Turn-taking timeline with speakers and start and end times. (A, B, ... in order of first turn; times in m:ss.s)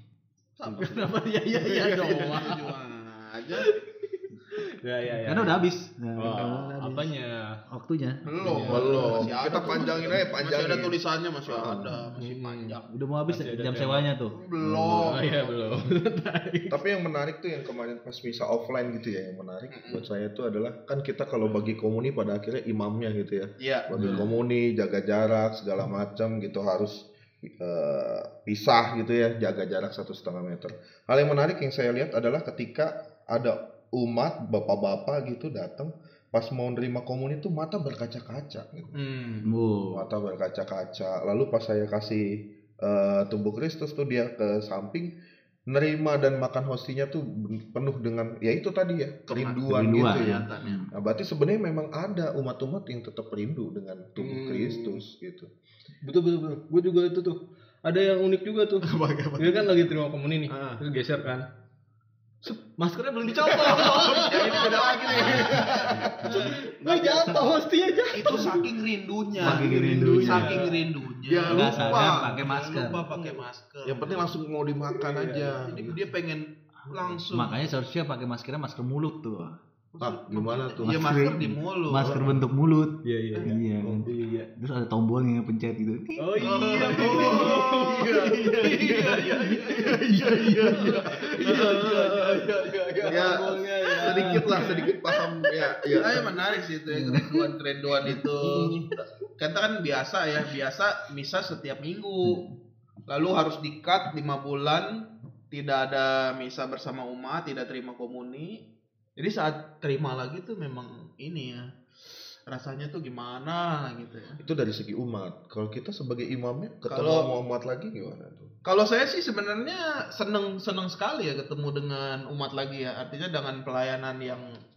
0:00.6-0:03.7 A
0:00.6-0:02.8 B
0:03.5-0:05.6 B
0:05.1-0:07.1 C
0:06.2-0:07.6 B
0:07.7-0:10.3 C
0:08.2-0:12.8 A
0:08.4-0:09.2 B
0:08.7-0:11.0 D
0:11.5-0:12.0 D
0:12.2-0:12.8 B
0:12.9-0:15.1 C
0:13.3-0:14.0 B
0:14.3-0:15.6 A
0:14.8-0:16.8 B
0:16.7-0:38.9 D
0:19.7-0:20.0 A
0:23.6-0:23.8 A
0:24.0-0:24.3 C
0:38.9-0:39.5 A
0:39.4-0:40.0 C
0:39.9-0:45.1 D
0:45.7-0:55.5 D
0:49.3-0:50.9 A
0:49.7-0:50.9 C
0:54.2-0:55.0 B
0:56.0-1:01.4 B
0:58.8-0:59.8 A
1:00.5-1:00.8 A
1:02.4-1:08.7 B
1:03.2-1:07.5 A
1:04.9-1:06.6 D
1:05.1-1:06.3 C
1:08.1-1:14.2 A
1:09.4-1:10.9 B
1:09.4-1:10.7 C
1:11.2-1:12.3 D
1:11.5-1:13.1 C
1:11.5-1:13.4 B
1:13.8-1:16.0 D
1:15.2-1:15.6 B
1:15.6-1:17.6 A
1:17.3-1:19.6 C
1:20.0-1:22.2 A
1:20.0-1:21.3 D
1:20.8-1:27.7 C
1:22.0-1:22.3 D
1:23.0-1:24.5 B
1:23.8-1:24.1 D
1:26.2-1:34.9 B
1:26.4-1:29.9 A
1:27.1-1:27.8 D
1:29.8-1:31.1 C
1:30.3-1:31.6 D
1:30.7-1:34.9 A
1:33.1-1:36.3 D
1:35.9-1:38.8 A
1:36.9-1:37.4 C
1:38.0-1:38.8 C
1:39.4-1:42.4 A
1:42.2-1:42.5 C
1:43.1-1:45.0 A
1:45.5-1:48.6 A
1:49.2-1:51.7 A
1:52.5-1:54.4 A
1:54.4-1:58.5 D
1:56.9-1:57.3 A
1:58.6-2:04.5 A